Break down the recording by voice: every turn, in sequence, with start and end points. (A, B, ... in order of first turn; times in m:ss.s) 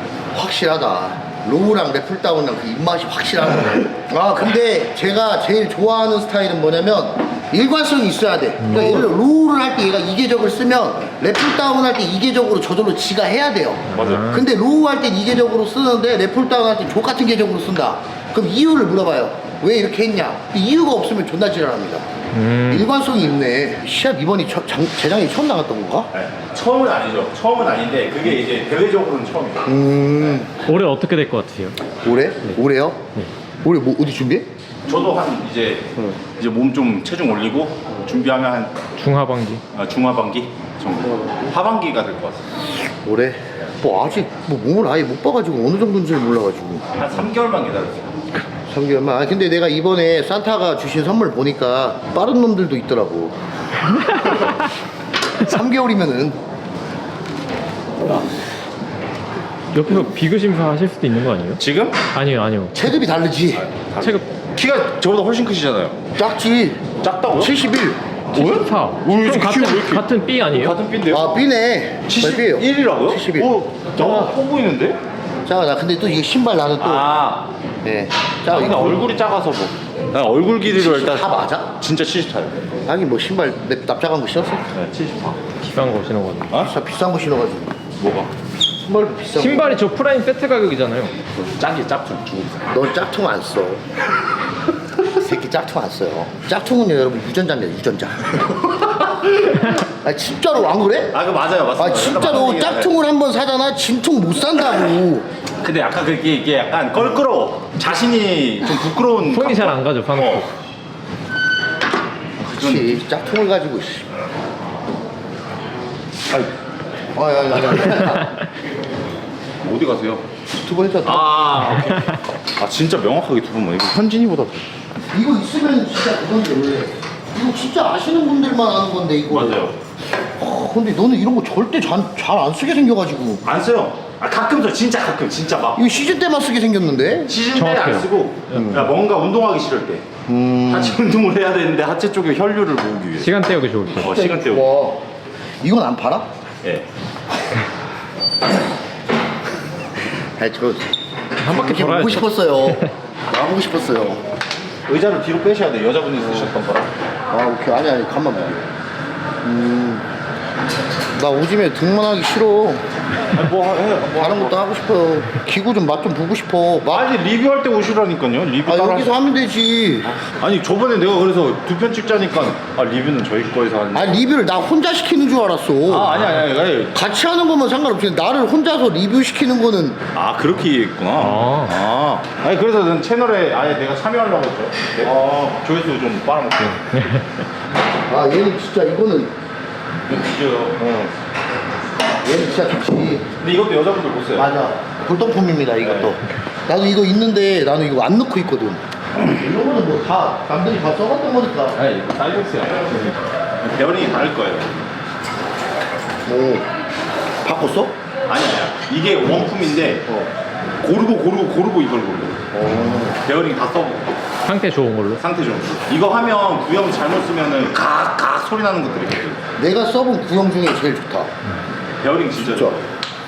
0:00.3-0:22.1 A
0:08.6-0:09.1 B
0:13.9-0:14.4 B
0:13.9-0:14.2 C
0:22.3-0:22.9 B
0:22.7-0:26.1 A
0:26.1-0:29.7 C
0:29.6-0:30.5 A
0:30.7-0:31.8 B
0:32.0-0:33.1 A
0:33.6-0:34.5 A
0:34.9-0:38.8 C
0:39.0-0:39.6 B
0:39.7-0:42.5 C
0:43.0-0:46.8 A
0:47.0-0:48.1 C
0:48.7-0:53.4 A
0:54.1-0:54.5 A
0:55.4-0:56.4 A
0:59.7-1:01.6 B
1:01.6-1:02.0 C
1:02.1-1:02.8 B
1:02.7-1:03.6 A
1:03.6-1:06.0 C
1:06.2-1:06.8 A
1:07.0-1:07.5 C
1:07.4-1:08.0 A
1:08.3-1:11.4 C
1:08.3-1:10.8 B
1:11.1-1:14.3 A
1:12.1-1:15.0 C
1:15.5-1:17.1 A
1:16.8-1:17.5 C
1:17.8-1:19.1 A
1:18.5-1:22.6 C
1:20.6-1:21.7 A
1:22.8-1:24.7 A
1:24.7-1:26.0 C
1:25.8-1:26.5 B
1:26.5-1:27.8 A
1:28.0-1:28.3 C
1:28.8-1:29.8 A
1:29.3-1:31.1 B
1:31.4-1:32.7 C
1:32.7-1:33.8 A
1:35.0-1:38.9 A
1:39.4-1:41.2 A
1:41.1-1:42.9 C
1:41.8-1:45.2 A
1:45.6-1:50.5 C
1:49.3-1:50.5 B
1:52.4-1:54.1 A
1:52.5-1:53.0 C
1:57.2-1:58.3 A
1:59.6-2:00.2 C
2:00.6-2:01.6 A
2:01.0-2:04.6 C
2:05.1-2:09.6 A
2:09.3-2:09.8 C
2:10.4-2:13.4 A
2:13.4-2:15.9 C
2:15.8-2:17.4 A
2:17.3-2:20.1 C
2:17.5-2:18.1 B
2:18.5-2:18.9 A
2:20.2-2:21.0 A
2:20.7-2:23.3 C
2:23.2-2:24.1 B
2:24.0-2:24.7 C
2:24.0-2:25.0 A
2:25.6-2:26.3 A
2:30.4-2:30.9 A
2:31.4-2:32.8 B
2:31.4-2:34.2 A
2:34.9-2:36.9 C
2:37.3-2:38.7 A
2:39.4-2:40.1 A
2:41.2-2:42.8 A
2:43.3-2:44.6 C
2:44.2-2:47.1 A
2:46.9-2:49.2 C
2:48.7-2:50.2 A
2:50.4-2:54.2 C
2:53.9-2:56.3 A
2:55.9-2:57.0 C
2:56.9-3:00.0 A
3:00.2-3:07.2 C
3:01.2-3:01.8 B
3:06.9-3:07.2 B
3:08.0-3:09.3 A
3:10.1-3:11.0 C
3:10.8-3:11.1 A
3:12.2-3:13.3 A
3:13.4-3:14.5 C
3:14.4-3:21.8 A
3:15.8-3:16.2 C
3:21.8-3:24.8 C
3:26.2-3:26.7 A
3:27.4-3:27.9 A
3:28.3-3:30.1 C
3:30.8-3:32.5 C
3:32.5-3:33.2 A
3:33.0-3:34.1 C
3:34.4-3:35.2 B
3:35.2-3:39.4 C
3:39.6-3:41.3 A
3:42.0-3:42.9 C
3:42.4-3:42.8 A